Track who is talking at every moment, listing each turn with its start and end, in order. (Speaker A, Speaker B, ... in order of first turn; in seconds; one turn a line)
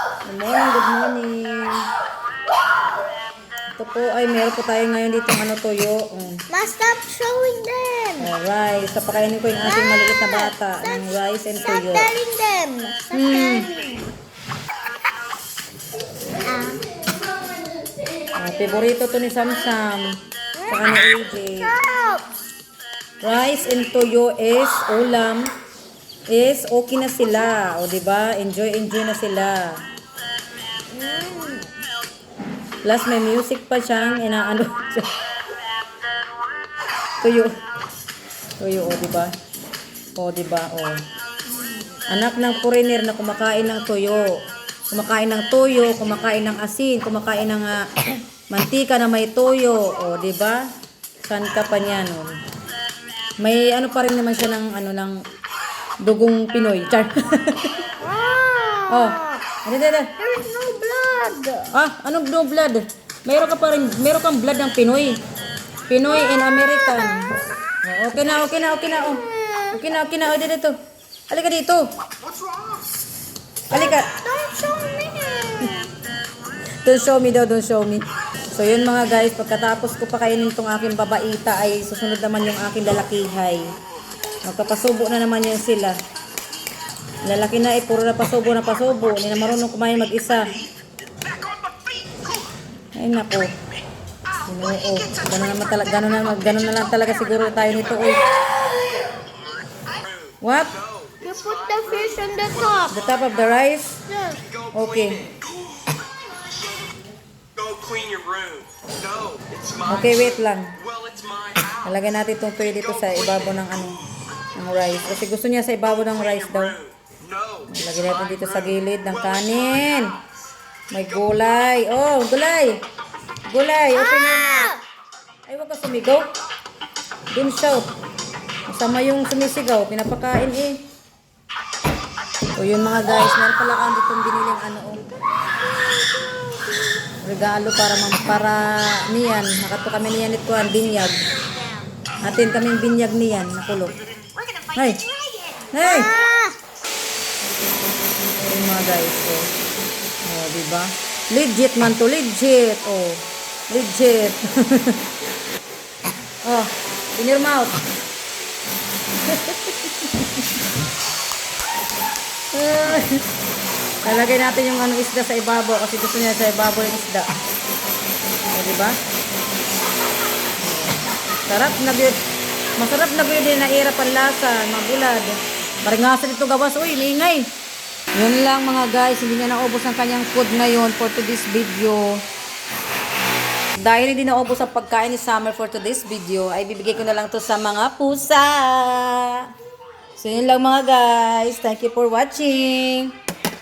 Speaker A: 0.2-1.8
Speaker A: 3.8-6.4
Speaker B: 6.5-8.3
Speaker A: 8.2-12.2
Speaker B: 9.6-11.0
Speaker B: 11.6-14.1
Speaker A: 13.1-13.7
Speaker B: 16.2-18.3
Speaker A: 18.3-21.8
Speaker B: 21.6-22.3
Speaker A: 23.2-25.5
Speaker A: 26.3-29.8
Speaker B: 30.9-31.7
Speaker A: 32.8-35.1
Speaker A: 37.2-37.5
Speaker A: 38.6-39.3
Speaker A: 40.2-41.0
Speaker A: 42.1-44.3
Speaker A: 44.9-50.6
Speaker A: 51.2-52.3
Speaker A: 53.4-55.2
Speaker A: 56.0-57.9
Speaker B: 58.0-59.4
Speaker A: 58.9-60.1
Speaker B: 60.2-61.7
Speaker A: 61.7-65.2
Speaker A: 65.9-67.2
Speaker A: 67.8-70.7
Speaker B: 69.0-69.8
Speaker A: 71.3-71.8
Speaker A: 73.7-74.1
Speaker B: 73.7-75.9
Speaker A: 76.8-83.7
Speaker A: 84.5-86.0
Speaker A: 87.2-90.5
Speaker A: 93.0-93.5
Speaker A: 94.4-98.3
Speaker A: 100.4-100.8
Speaker B: 101.1-103.0
Speaker A: 102.9-104.0
Speaker B: 104.1-104.4
Speaker A: 104.7-105.3
Speaker C: 107.6-109.8
Speaker A: 109.8-110.8
Speaker C: 111.0-111.6
Speaker A: 111.7-114.0
Speaker A: 114.5-116.8
Speaker A: 117.7-120.2
Speaker A: 120.9-122.8
Speaker A: 123.5-124.7
Speaker B: 124.1-124.8
Speaker A: 125.5-126.3
Speaker A: 127.3-127.9
Speaker A: 128.7-130.8
Speaker A: 132.6-135.2
Speaker B: 135.4-136.8
Speaker A: 137.2-141.2
Speaker A: 142.2-144.0
Speaker A: 144.7-145.1
Speaker B: 145.3-146.6
Speaker A: 145.7-146.2
Speaker A: 148.3-149.5
Speaker A: 150.2-155.0
Speaker A: 156.4-157.8
Speaker A: 159.2-160.6
Speaker A: 162.5-163.2
Speaker A: 164.0-167.3
Speaker A: 168.5-169.0
Speaker A: 170.6-172.2
Speaker A: 172.8-177.5
Speaker A: 178.2-182.2
Speaker A: 183.8-189.5
Speaker A: 190.2-193.1